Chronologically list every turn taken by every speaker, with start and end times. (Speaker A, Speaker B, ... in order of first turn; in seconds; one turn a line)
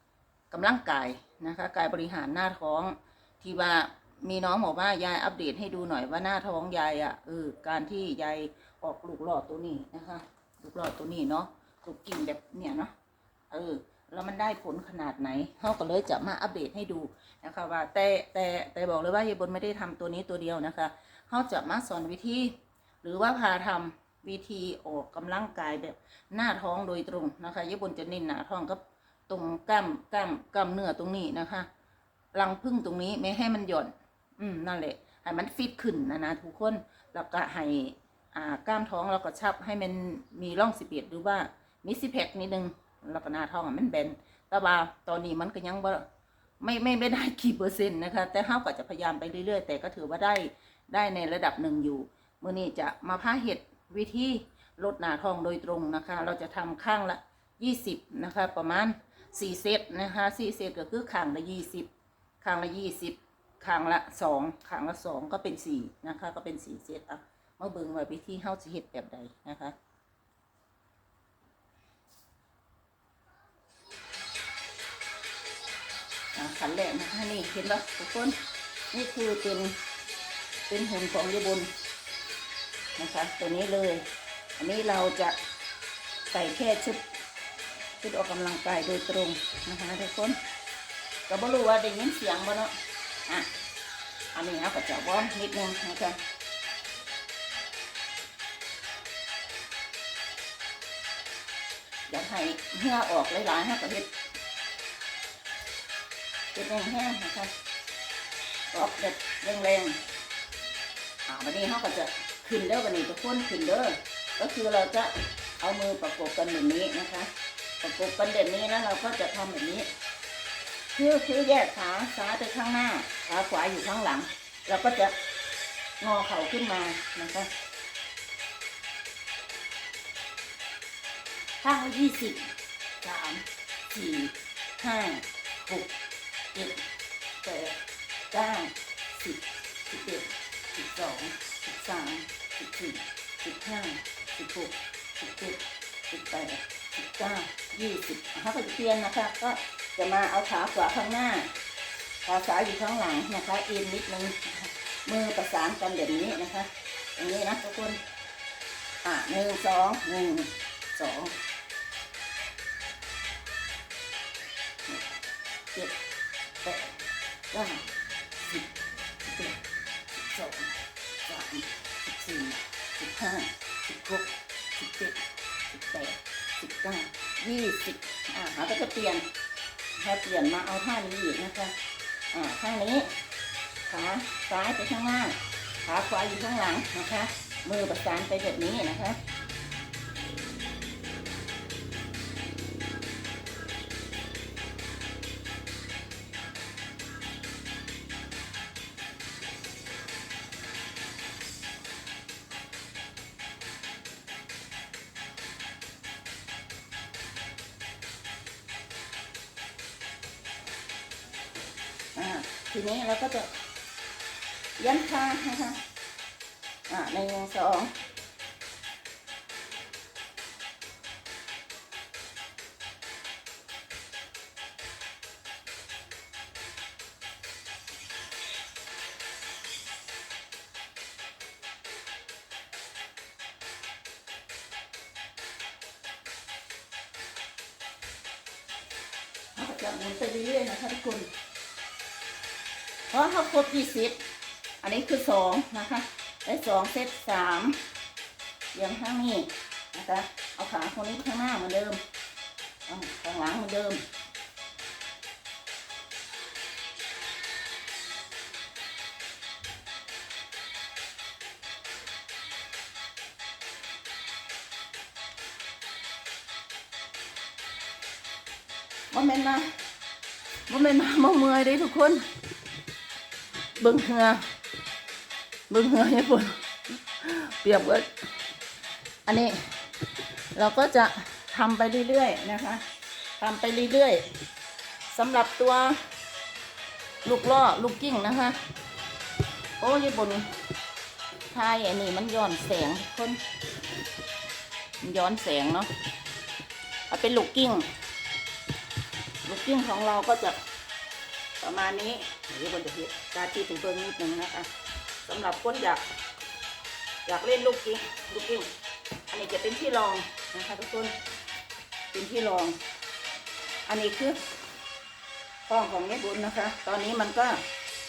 Speaker A: 0.5-12.9
Speaker A: 13.5-31.7
Speaker A: 32.3-46.0
Speaker A: 46.6-61.9
Speaker A: 62.4-69.7
Speaker A: 76.3-78.4
Speaker A: 78.9-79.8
Speaker A: 80.7-81.7
Speaker A: 83.0-84.0
Speaker A: 84.6-85.3
Speaker A: 86.3-87.0
Speaker A: 88.0-90.4
Speaker A: 91.3-92.7
Speaker A: 94.3-96.2
Speaker A: 102.1-104.1
Speaker A: 106.5-107.5
Speaker A: 108.7-110.0
Speaker A: 111.3-119.9
Speaker A: 120.9-125.1
Speaker A: 126.0-127.5
Speaker A: 131.6-132.5
Speaker A: 133.0-135.9
Speaker A: 136.5-136.8
Speaker A: 137.4-137.8
Speaker A: 138.3-151.5
Speaker A: 152.2-158.0
Speaker A: 159.0-161.3
Speaker A: 166.6-167.0
Speaker A: 167.5-167.9
Speaker A: 168.4-169.6
Speaker A: 170.2-179.3
Speaker A: 180.0-181.7
Speaker A: 182.3-183.1
Speaker A: 183.8-189.2
Speaker A: 212.1-213.5
Speaker A: 214.8-215.8
Speaker A: 216.9-217.9
Speaker A: 239.5-241.3
Speaker A: 243.1-244.2
Speaker A: 244.8-247.8
Speaker A: 248.7-252.0
Speaker A: 252.9-254.0
Speaker A: 269.1-269.7
Speaker A: 270.7-272.2
Speaker A: 273.8-274.4
Speaker A: 275.7-278.2
Speaker A: 279.2-279.8
Speaker A: 280.5-282.8
Speaker A: 283.4-284.2
Speaker A: 285.1-286.0
Speaker A: 287.2-288.6
Speaker A: 289.8-290.5
Speaker A: 291.5-293.4
Speaker A: 295.0-295.9
Speaker A: 297.1-297.9
Speaker A: 299.4-300.6
Speaker A: 301.6-304.7
Speaker A: 305.2-306.0
Speaker A: 307.2-308.7
Speaker A: 309.3-311.1
Speaker A: 312.1-312.8
Speaker A: 313.9-314.4
Speaker A: 315.7-317.6